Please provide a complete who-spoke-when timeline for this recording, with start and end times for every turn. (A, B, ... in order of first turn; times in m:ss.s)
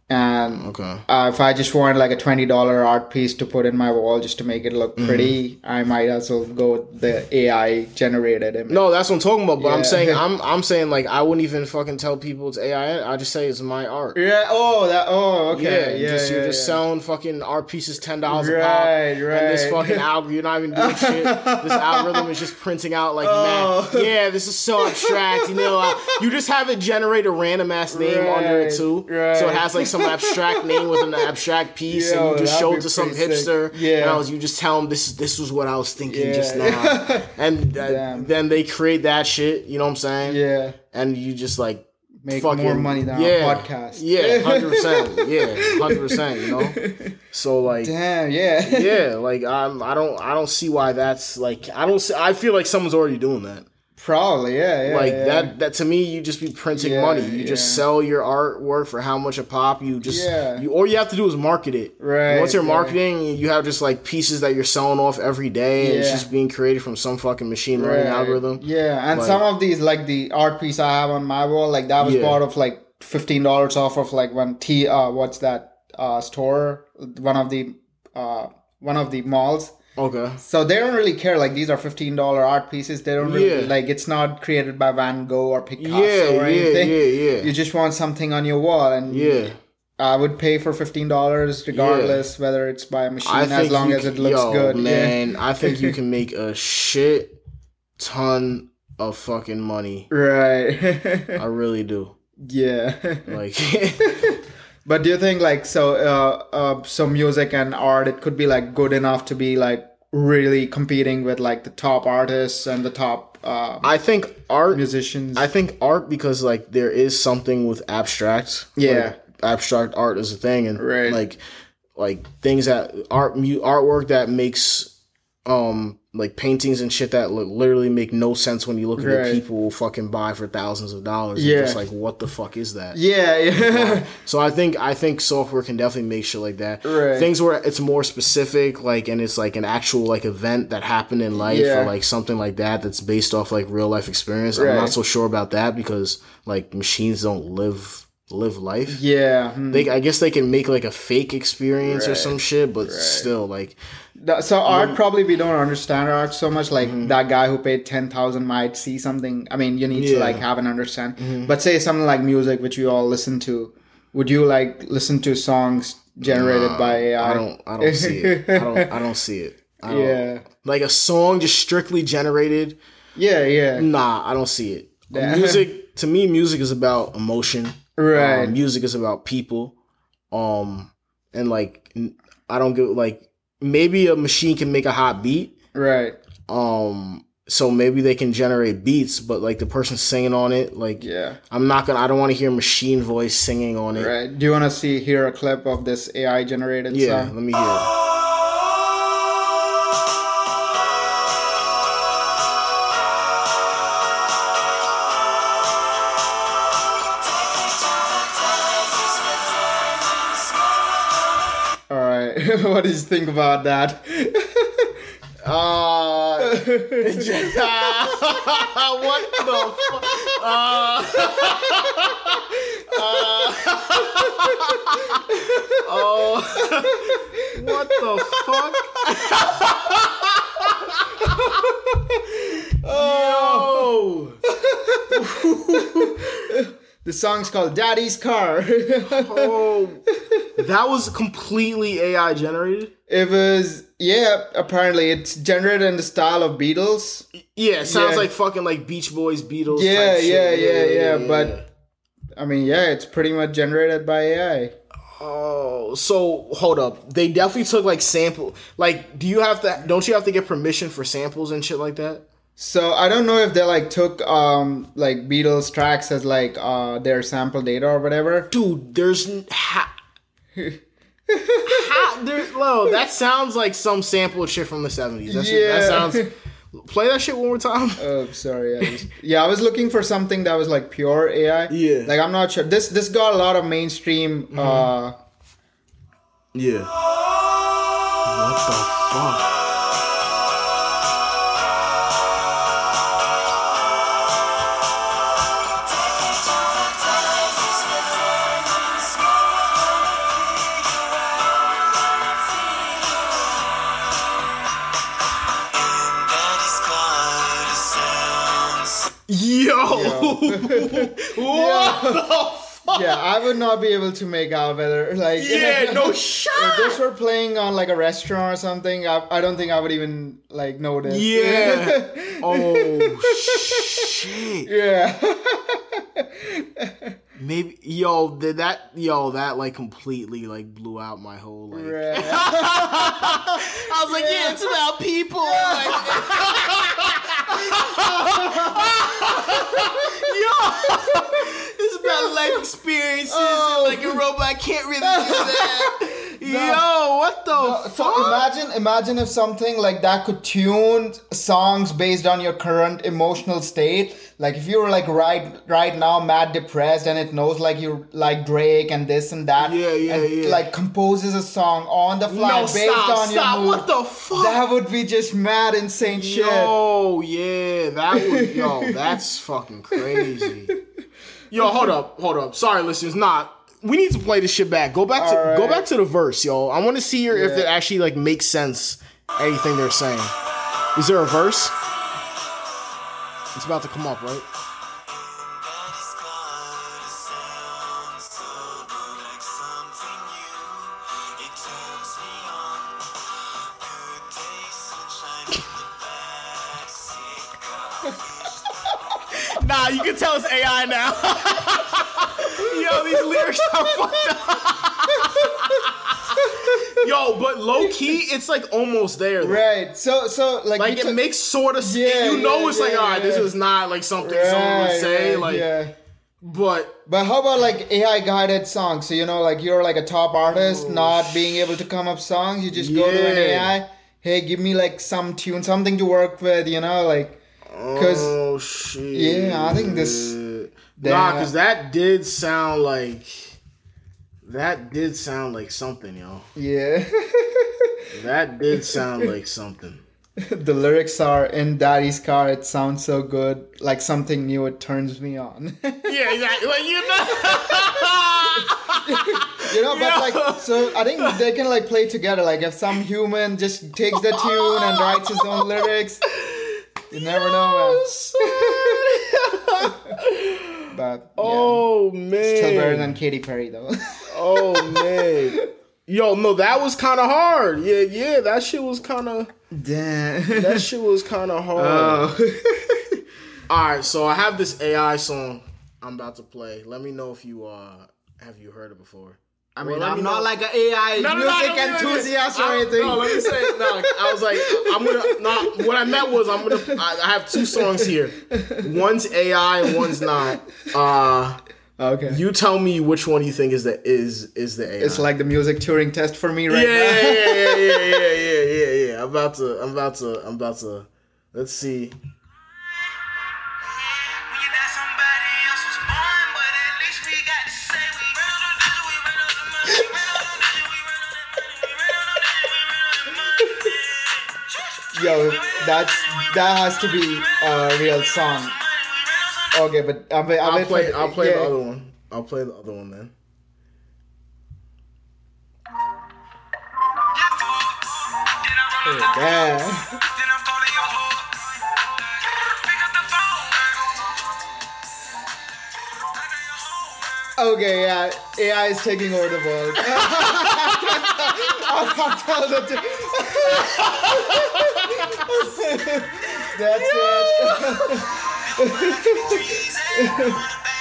0:00.1-0:08.8 A
0:00.6-0:01.0 B
0:05.0-0:05.4 B
0:08.7-0:14.2 B
0:09.6-0:10.2 A
0:14.2-0:16.8 A
0:15.5-0:40.4 B
0:18.3-0:20.0 A
0:20.7-0:22.3 A
0:23.2-0:24.1 A
0:24.8-0:26.2 A
0:27.9-0:31.3 A
0:31.9-0:34.2 A
0:36.0-0:38.3 A
0:40.2-0:40.8 A
0:40.9-0:47.9 B
0:42.2-0:47.1 A
0:47.8-0:49.0 A
0:48.6-0:53.7 B
0:54.0-0:55.5 A
0:54.8-1:09.4 B
0:56.7-0:57.8 A
1:00.0-1:00.7 A
1:02.0-1:03.0 A
1:05.8-1:06.3 A
1:07.8-1:19.8 A
1:12.0-1:12.4 B
1:20.0-1:20.4 B
1:20.4-1:36.0 A
1:23.2-1:23.7 B
1:25.8-1:27.5 B
1:29.1-1:29.6 B
1:31.7-1:32.2 B
1:33.2-1:37.4 B
1:38.0-1:40.1 B
1:40.1-1:41.4 A
1:41.4-1:42.2 B
1:42.4-1:43.4 A
1:43.3-1:44.2 B
1:44.1-1:53.9 A
1:53.8-1:54.8 B
1:54.7-1:55.5 A
1:55.4-2:01.4 B
1:58.8-1:59.2 A
2:00.8-2:01.2 A
2:02.0-2:04.9 B
2:05.5-2:13.0 B
2:09.0-2:09.4 A
2:11.4-2:11.8 A
2:12.9-2:14.1 A
2:13.6-2:29.0 B
2:16.8-2:17.3 A
2:21.4-2:21.9 A
2:24.5-2:25.0 A
2:28.9-2:29.9 A
2:29.7-2:33.8 B
2:31.8-2:33.3 A
2:34.2-2:48.9 A
2:34.7-2:35.0 B
2:36.8-2:37.1 B
2:39.9-2:40.4 B
2:41.2-2:41.5 B
2:46.2-2:52.8 B
2:49.9-2:50.5 A
2:53.2-2:53.9 A
2:53.8-2:59.8 B
2:55.1-2:55.7 A
2:58.0-2:58.6 A
3:00.3-3:05.5 B
3:05.7-3:06.2 A
3:06.5-3:14.1 B
3:11.0-3:11.4 A
3:14.0-3:17.3 A
3:16.9-3:17.9 B
3:31.9-3:35.0 A
3:35.4-3:51.6 B
3:36.4-3:38.5 A
3:39.4-3:40.4 A
3:41.2-3:42.2 A
3:42.9-3:45.8 A
3:46.6-3:50.0 A
3:50.6-3:53.9 A
3:52.8-3:54.4 B
3:54.4-3:59.5 A
3:55.1-3:56.4 B
3:59.1-4:00.0 B
4:00.2-4:00.5 A
4:00.6-4:02.9 B
4:03.1-4:07.3 A
4:07.4-4:11.6 B
4:07.8-4:08.3 A
4:09.7-4:11.6 A
4:12.4-4:14.7 A
4:15.2-4:22.2 B
4:22.6-4:28.5 A
4:28.5-4:29.9 B
4:30.6-4:32.1 A
4:31.6-4:38.1 B
4:35.3-4:36.3 A
4:38.0-4:45.2 A
4:41.7-4:42.1 B
4:44.5-4:44.9 B
4:46.5-4:46.9 B
4:48.2-4:49.6 B
5:06.3-5:07.9 B
5:09.3-5:13.2 B
5:09.9-5:12.2 A
5:12.9-5:27.2 A
5:15.4-5:17.0 B
5:21.0-5:24.7 B
5:27.4-5:48.4 B
5:31.7-5:34.8 A
5:35.4-5:41.4 A
5:42.0-5:42.6 A
5:43.3-5:44.2 A
5:45.0-5:46.8 A
5:47.5-6:06.8 A
5:59.6-6:00.6 B
6:02.3-6:04.6 B
6:06.0-6:10.8 B
6:08.1-6:09.2 A
6:10.0-6:10.8 A
6:11.5-6:20.3 B
6:11.6-6:11.9 A
6:15.2-6:15.8 A
6:17.3-6:17.7 A
6:20.9-6:21.8 B
6:23.5-6:24.5 B
6:25.9-6:30.6 B
6:31.5-6:32.6 B
6:35.5-6:35.9 B
6:36.7-6:37.0 B
6:39.1-6:49.7 B
6:42.4-6:44.6 A
6:45.1-6:47.1 A
6:47.8-6:48.2 A
6:49.4-6:51.2 A
6:50.8-6:55.7 B
6:51.8-6:53.5 A
6:54.2-6:55.9 A
6:56.4-6:57.0 B
6:57.1-7:07.4 A
7:00.5-7:01.8 B
7:02.7-7:03.7 B
7:07.7-7:13.6 B
7:08.0-7:08.3 A
7:09.1-7:10.4 A
7:11.0-7:11.5 A
7:14.4-7:16.5 B
7:16.6-7:18.1 A
7:18.1-7:20.0 B
7:18.7-7:19.0 A
7:20.4-7:26.4 A
7:26.1-7:31.4 B
7:27.0-7:36.2 A
7:34.1-7:43.2 B
7:37.1-7:40.2 A
7:40.9-7:41.8 A
7:42.4-7:45.6 A
7:44.3-7:49.5 B
7:49.7-7:50.8 A
7:50.5-7:52.3 B
7:51.8-7:53.2 A
7:53.7-8:00.5 B
7:59.8-8:07.0 A
8:01.2-8:11.6 B
8:07.5-8:09.0 A
8:09.9-8:10.3 A
8:12.0-8:12.4 A
8:12.3-8:15.3 B
8:15.0-8:18.3 A
8:16.7-8:22.2 B
8:24.4-8:30.9 B
8:29.9-8:30.2 A
8:32.1-8:33.9 B
8:35.1-8:38.8 A
8:39.7-8:41.7 A
8:40.6-8:43.3 B
8:47.5-8:49.7 B
8:49.0-8:50.2 A
8:50.3-8:51.6 B
8:52.8-8:53.8 B
8:57.6-9:10.6 A
9:00.3-9:01.8 B
9:03.7-9:05.5 B
9:06.6-9:08.4 B
9:09.3-9:10.5 B